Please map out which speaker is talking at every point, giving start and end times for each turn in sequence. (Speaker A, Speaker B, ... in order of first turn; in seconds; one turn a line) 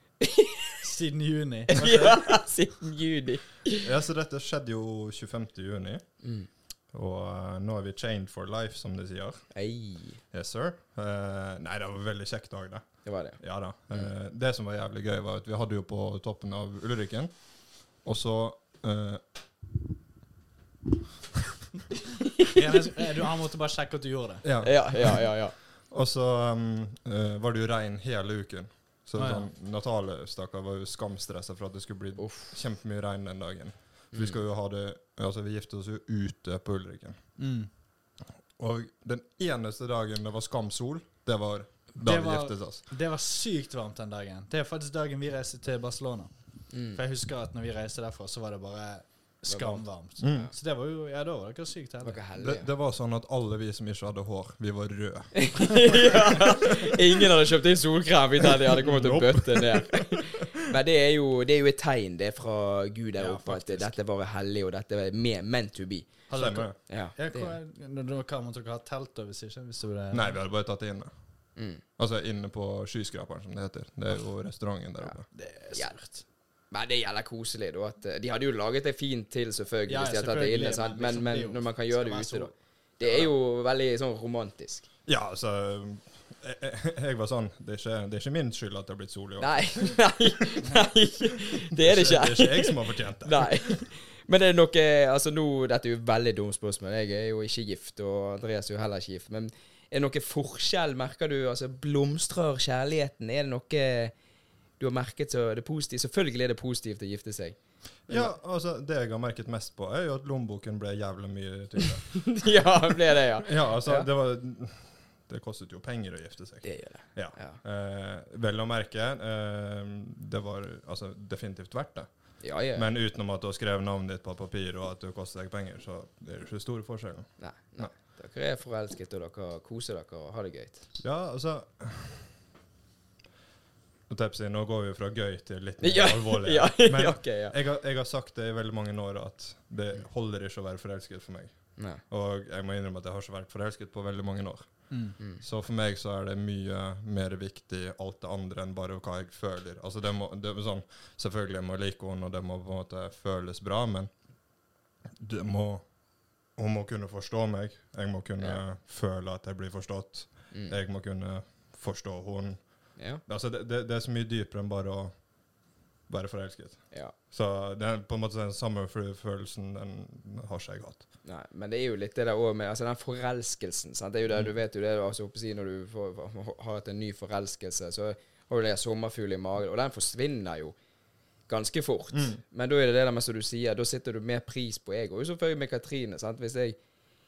Speaker A: 0.2-0.7
Speaker B: 0.8-2.4
Speaker A: 1.7-3.9
Speaker C: 3.8-6.1
Speaker A: 6.2-6.5
Speaker C: 6.9-9.6
Speaker A: 9.5-10.2
Speaker C: 10.3-19.2
Speaker A: 13.0-13.4
Speaker B: 22.5-24.4
Speaker A: 22.5-22.8
Speaker C: 24.4-25.4
Speaker A: 24.6-25.6
Speaker C: 25.9-37.2
Speaker B: 29.2-29.5
Speaker A: 32.2-32.5
Speaker A: 34.1-34.4
Speaker B: 37.4-37.7
Speaker C: 38.6-42.8
Speaker B: 42.0-52.2
Speaker A: 46.7-47.0
Speaker A: 49.5-50.5
Speaker C: 50.2-50.5
Speaker A: 52.0-52.7
Speaker C: 52.4-57.0
Speaker A: 55.4-66.2
Speaker C: 58.8-60.6
Speaker B: 63.2-64.0
Speaker B: 66.3-70.4
Speaker C: 66.3-66.8
Speaker A: 66.9-67.6
Speaker C: 70.1-71.1
Speaker A: 71.6-71.8
Speaker C: 72.0-75.2
Speaker B: 75.3-76.2
Speaker A: 75.7-76.0
Speaker A: 76.7-84.9
Speaker B: 79.9-82.5
Speaker C: 85.1-90.1
Speaker A: 89.4-104.1
Speaker C: 91.7-93.9
Speaker A: 104.8-108.3
Speaker C: 108.1-112.5
Speaker A: 111.8-114.1
Speaker C: 113.4-122.1
Speaker A: 116.6-117.6
Speaker A: 122.4-122.9
Speaker C: 122.7-127.9
Speaker A: 127.4-130.8
Speaker C: 131.0-132.3
Speaker C: 134.1-154.1
Speaker A: 135.8-137.6
Speaker B: 144.9-145.2
Speaker C: 155.1-155.9
Speaker C: 156.6-165.3
Speaker C: 166.1-171.1
Speaker A: 171.2-180.8
Speaker A: 181.5-186.8
Speaker C: 182.1-182.4